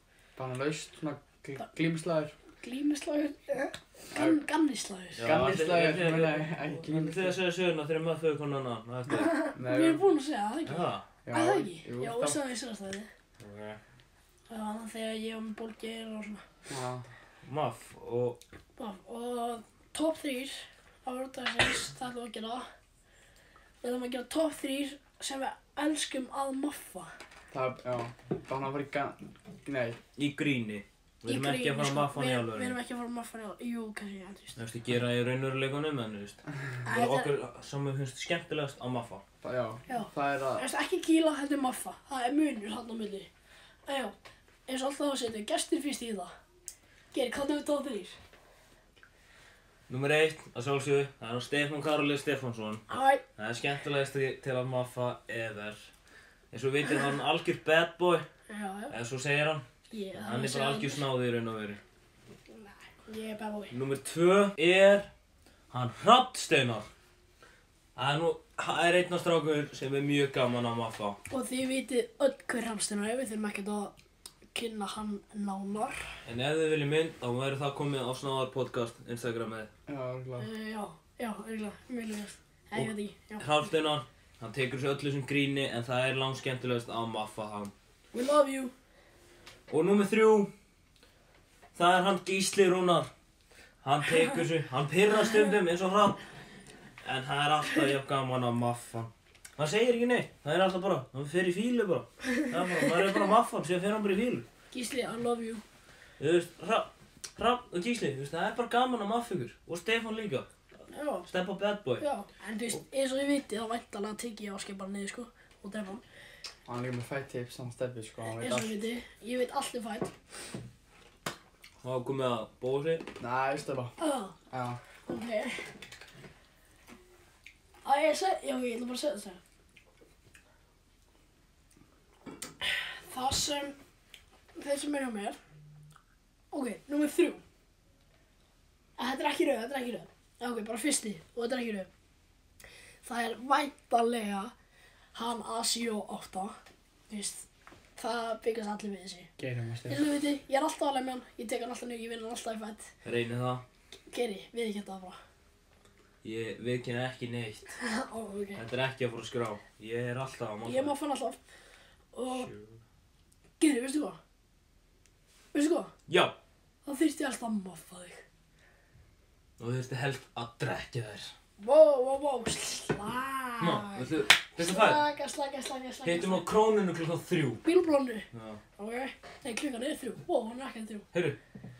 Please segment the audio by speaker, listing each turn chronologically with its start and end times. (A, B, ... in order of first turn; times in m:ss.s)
0:00.4-0:02.4 A
0:02.6-0:05.3 B
0:04.1-0:04.4 A
0:05.2-0:09.4 C
0:05.2-0:07.4 A
0:09.1-0:13.1 B
0:09.6-0:10.0 A
0:10.7-0:11.0 C
0:11.2-0:12.4 A
0:13.4-0:13.8 C
0:14.5-0:16.4 B
0:16.7-0:17.0 A
0:17.4-0:18.4 C
0:18.8-0:22.7 B
0:23.8-0:27.1 B
0:27.5-0:30.0 A
0:30.2-0:32.8 C
0:31.3-0:34.6 B
0:34.6-0:39.2 C
0:36.9-0:37.3 B
0:39.4-0:40.7 A
0:39.9-0:43.3 B
0:43.9-0:44.2 B
0:44.7-0:46.3 B
0:47.1-0:48.2 B
0:49.9-0:52.8 C
0:52.9-0:53.2 B
0:53.4-0:55.9 C
0:56.5-0:58.2 C
0:58.5-0:58.9 B
0:58.9-0:59.7 C
0:59.9-1:01.0 B
1:00.2-1:01.8 C
1:02.5-1:03.7 B
1:03.7-1:05.1 C
1:05.7-1:06.9 C
1:08.0-1:11.2 C
1:11.3-1:14.0 B
1:14.5-1:16.0 B
1:16.3-1:19.7 C
1:19.9-1:20.5 A
1:20.4-1:23.4 B
1:22.8-1:27.7 C
1:28.1-1:28.7 B
1:29.7-1:30.5 C
1:31.8-1:33.1 C
1:33.8-1:36.2 C
1:37.0-1:44.5 C
1:42.4-1:42.9 B
1:44.7-1:45.6 B
1:46.2-1:50.5 C
1:50.9-1:51.3 B
1:51.3-1:52.0 C
1:52.0-1:56.0 B
1:56.7-1:58.8 A
1:58.4-2:00.1 B
2:01.8-2:03.1 C
2:03.2-2:03.9 A
2:04.0-2:04.4 B
2:04.5-2:04.8 A
2:05.1-2:05.6 B
2:07.8-2:09.4 B
2:12.6-2:13.8 B
2:14.6-2:15.4 B
2:16.5-2:17.4 B
2:19.0-2:21.9 B
2:23.0-2:24.5 B
2:25.2-2:26.6 B
2:27.1-2:27.5 B
2:28.0-2:29.3 B
2:29.4-2:30.0 A
2:29.9-2:32.9 B
2:33.0-2:33.6 C
2:34.1-2:35.2 B
2:36.2-2:37.8 C
2:37.8-2:38.6 B
2:38.6-2:41.0 C
2:40.6-2:41.4 B
2:42.1-2:42.5 B
2:42.3-2:42.8 C
2:43.6-2:44.2 B
2:45.5-2:45.9 B
2:46.1-2:46.4 C
2:46.8-2:48.2 B
2:49.6-2:51.3 C
2:51.6-2:56.4 B
2:53.6-2:55.0 C
2:56.0-2:57.6 C
2:57.6-2:58.2 B
2:58.3-2:58.6 C
2:58.8-3:01.0 B